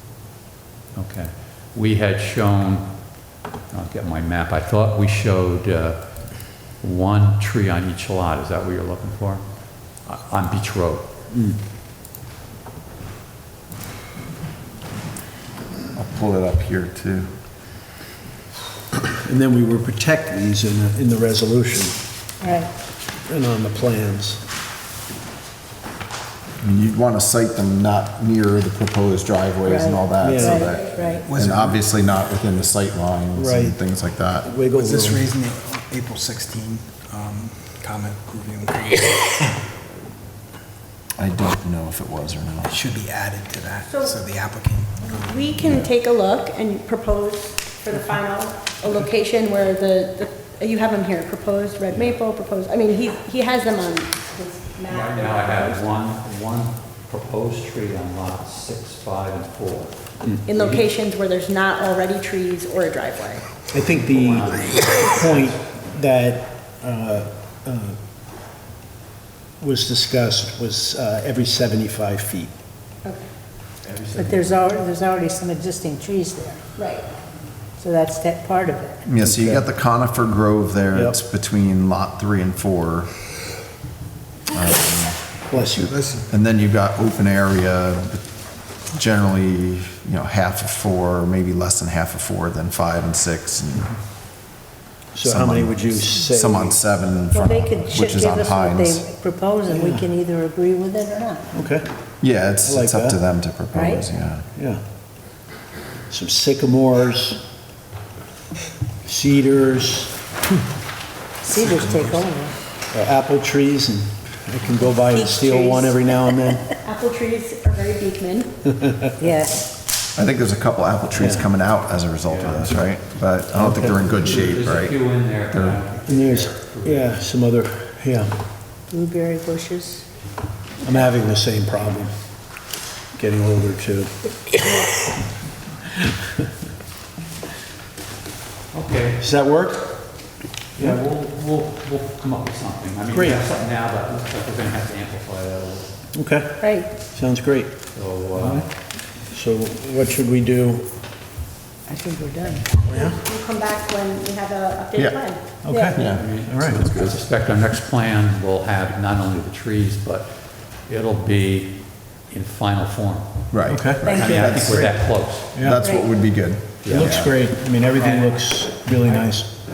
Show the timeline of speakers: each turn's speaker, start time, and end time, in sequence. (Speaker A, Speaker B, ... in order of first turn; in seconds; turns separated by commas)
Speaker A: 0.9-11.1, Speaker B: 11.3-11.6, Speaker C: 15.9-17.3, Speaker B: 19.1-22.0, Speaker D: 22.4-22.7, Speaker B: 23.2-24.4, Speaker C: 26.6-34.5, Speaker D: 29.6-31.2, Speaker B: 30.2-30.6, Speaker E: 30.6-31.2, Speaker F: 31.2-31.8, Speaker B: 33.3-33.8, Speaker B: 34.4-35.2, Speaker F: 34.7-39.6, Speaker C: 41.2-42.8, Speaker F: 42.6-45.5, Speaker E: 43.9-44.2, Speaker E: 45.1-55.8, Speaker C: 45.6-45.9, Speaker A: 54.9-60.8, Speaker B: 60.2-60.8, Speaker E: 60.4-63.5, Speaker B: 63.7-68.0, Speaker A: 64.2-65.5, Speaker B: 69.6-72.5, Speaker D: 74.1-76.6, Speaker E: 76.8-77.1, Speaker D: 77.8-79.0, Speaker C: 79.0-83.1, Speaker B: 79.2-79.7, Speaker C: 84.5-85.2, Speaker B: 85.5-85.9, Speaker C: 86.3-88.2, Speaker C: 88.9-93.9, Speaker B: 95.1-96.8, Speaker C: 95.2-99.0, Speaker D: 97.3-101.5, Speaker B: 99.7-100.1, Speaker B: 101.5-101.8, Speaker C: 102.2-104.4, Speaker B: 102.6-103.2, Speaker D: 103.7-104.0, Speaker B: 104.5-104.8, Speaker B: 106.1-107.4, Speaker B: 109.0-110.1, Speaker D: 111.4-112.5, Speaker F: 111.6-112.0, Speaker B: 112.9-116.7, Speaker E: 115.0-116.0, Speaker E: 116.8-118.5, Speaker B: 118.8-119.1, Speaker D: 119.2-119.7, Speaker C: 120.2-125.0, Speaker B: 121.2-121.5, Speaker A: 122.2-122.9, Speaker B: 123.5-124.6, Speaker A: 124.0-127.2, Speaker C: 125.5-125.8, Speaker B: 126.0-128.3, Speaker D: 128.9-130.0, Speaker B: 130.8-132.1, Speaker B: 133.1-134.9, Speaker B: 135.9-136.4, Speaker A: 138.7-139.2, Speaker B: 139.2-140.0, Speaker A: 140.8-146.0, Speaker B: 143.1-143.4, Speaker B: 146.1-147.8, Speaker E: 146.6-146.9, Speaker A: 147.9-148.7, Speaker B: 148.3-148.7, Speaker B: 149.3-150.9, Speaker D: 151.9-152.8, Speaker B: 152.9-153.2, Speaker E: 153.0-155.4, Speaker B: 155.6-156.8, Speaker D: 155.7-156.0, Speaker C: 155.9-156.2, Speaker A: 156.1-163.5, Speaker C: 156.8-157.2, Speaker C: 163.5-167.4, Speaker B: 163.7-164.1, Speaker D: 164.0-164.6, Speaker A: 164.1-165.6, Speaker B: 165.5-165.8, Speaker A: 166.8-167.3, Speaker B: 166.8-169.5, Speaker A: 167.9-168.3